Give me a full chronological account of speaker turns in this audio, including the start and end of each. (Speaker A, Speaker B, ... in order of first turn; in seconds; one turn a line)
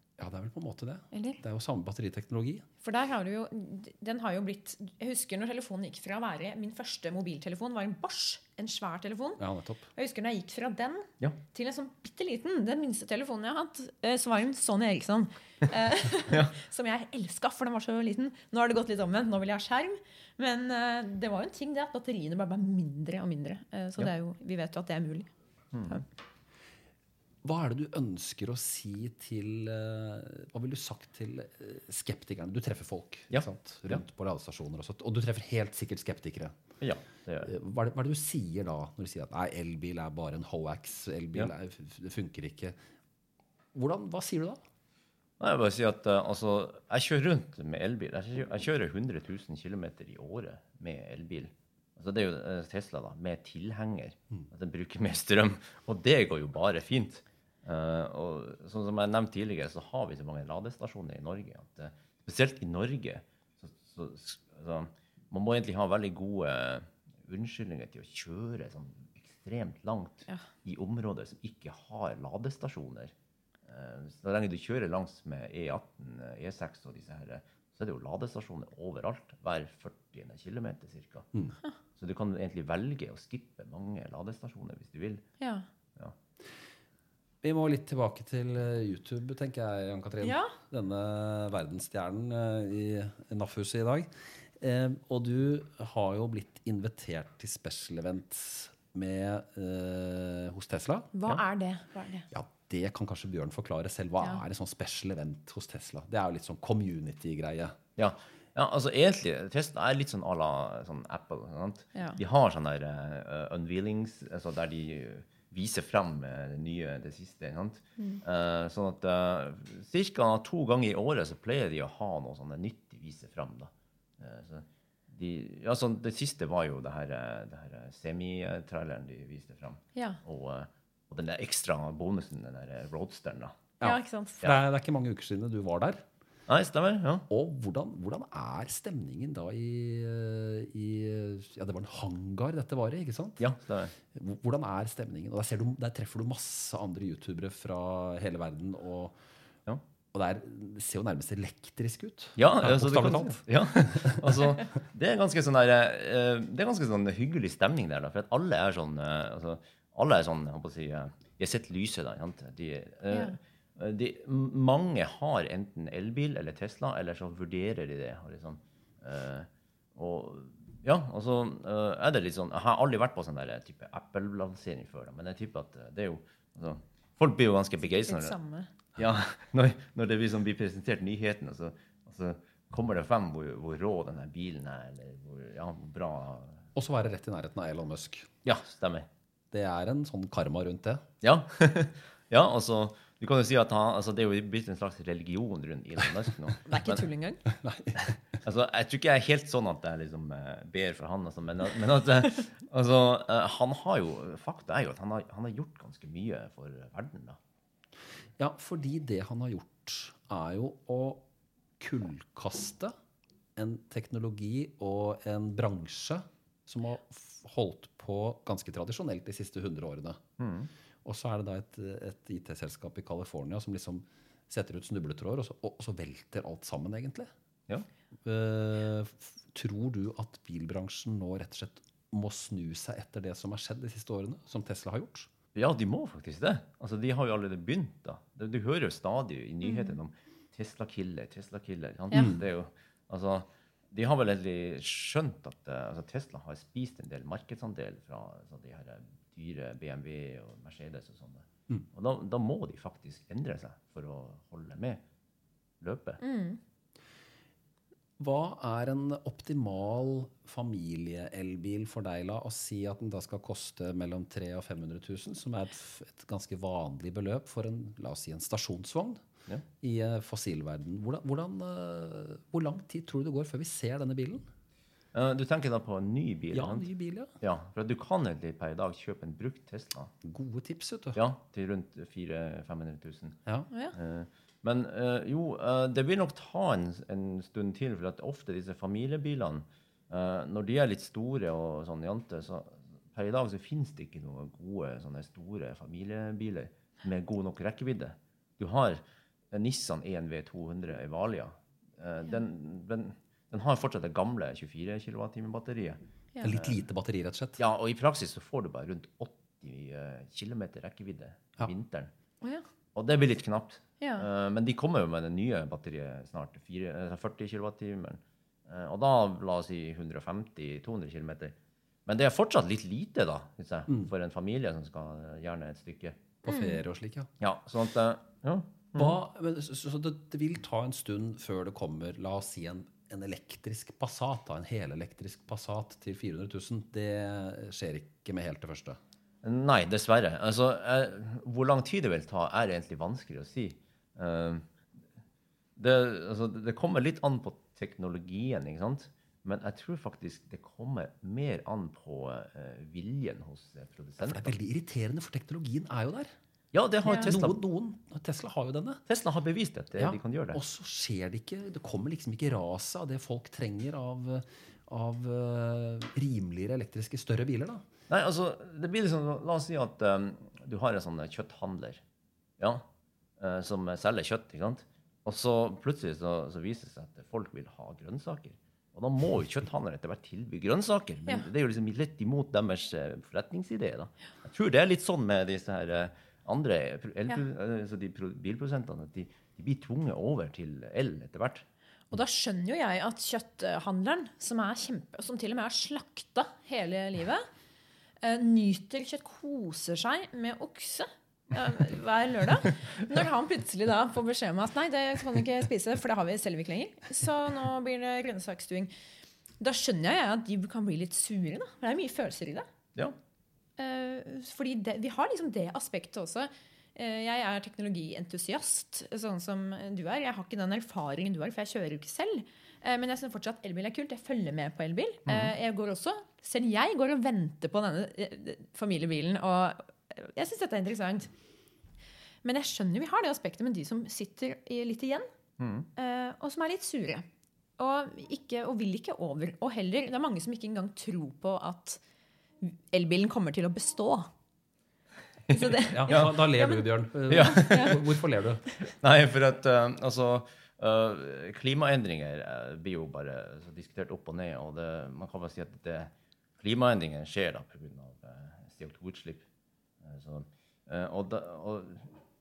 Speaker A: 0.2-2.6
Speaker B: 1.1-1.4
Speaker B: 2.8-9.4
Speaker A: 9.4-9.8
Speaker B: 9.9-25.3
Speaker C: 16.3-16.5
Speaker C: 25.7-26.0
Speaker A: 27.4-36.6
Speaker C: 33.3-34.0
Speaker C: 36.8-37.5
Speaker A: 37.4-42.8
Speaker A: 43.7-44.6
Speaker C: 45.4-73.1
Speaker C: 73.7-81.3
Speaker C: 82.0-85.2
Speaker B: 85.4-85.7
Speaker A: 87.4-101.1
Speaker B: 90.2-90.5
Speaker B: 101.1-102.2
Speaker A: 102.3-107.8
Speaker C: 108.0-133.6
Speaker B: 129.9-130.2
Speaker A: 133.8-136.0
Speaker B: 133.8-134.4
Speaker C: 136.5-137.2
Speaker A: 137.3-143.4
Speaker C: 143.4-143.9
Speaker A: 144.1-149.2
Speaker A: 150.1-154.2
Speaker C: 152.3-178.3
Speaker B: 177.8-178.7
Speaker C: 178.9-186.6
Speaker A: 186.7-188.3
Speaker C: 188.4-189.1
Speaker A: 189.5-191.0
Speaker C: 191.2-197.0
Speaker B: 196.7-197.4
Speaker A: 197.4-198.2
Speaker C: 198.4-207.4
Speaker A: 208.4-211.2
Speaker A: 211.8-212.9
Speaker A: 213.6-220.2
Speaker C: 220.4-220.7
Speaker A: 221.0-227.3
Speaker A: 228.2-235.3
Speaker C: 235.5-255.0
Speaker B: 239.6-240.0
Speaker C: 255.8-256.2
Speaker B: 256.2-256.6
Speaker A: 258.2-269.2
Speaker A: 269.8-274.4
Speaker C: 275.1-276.9
Speaker A: 276.5-277.3
Speaker C: 277.4-280.1
Speaker A: 280.2-281.2
Speaker C: 281.1-283.4
Speaker C: 283.9-306.8
Speaker A: 306.4-307.6
Speaker C: 307.6-312.1
Speaker C: 312.9-321.5
Speaker B: 314.0-314.3
Speaker C: 322.1-326.2
Speaker A: 326.4-327.3
Speaker B: 326.5-326.8
Speaker C: 327.4-329.2
Speaker A: 328.9-339.0
Speaker C: 339.4-344.6
Speaker C: 345.8-354.5
Speaker A: 354.2-356.3
Speaker C: 356.7-357.6
Speaker A: 357.0-359.0
Speaker B: 357.1-357.3
Speaker C: 359.1-360.6
Speaker A: 360.0-367.9
Speaker C: 368.1-372.0
Speaker C: 372.6-372.8
Speaker C: 373.4-391.6
Speaker B: 392.1-397.4
Speaker B: 398.2-408.9
Speaker B: 409.6-412.6
Speaker B: 413.8-431.3
Speaker C: 425.3-425.5
Speaker B: 432.4-435.3
Speaker C: 435.6-435.9
Speaker B: 435.9-437.2
Speaker B: 437.8-442.0
Speaker B: 442.6-444.3
Speaker C: 445.5-446.4
Speaker B: 445.5-448.0
Speaker A: 445.9-448.6
Speaker C: 447.3-447.9
Speaker C: 448.8-459.4
Speaker C: 460.0-462.1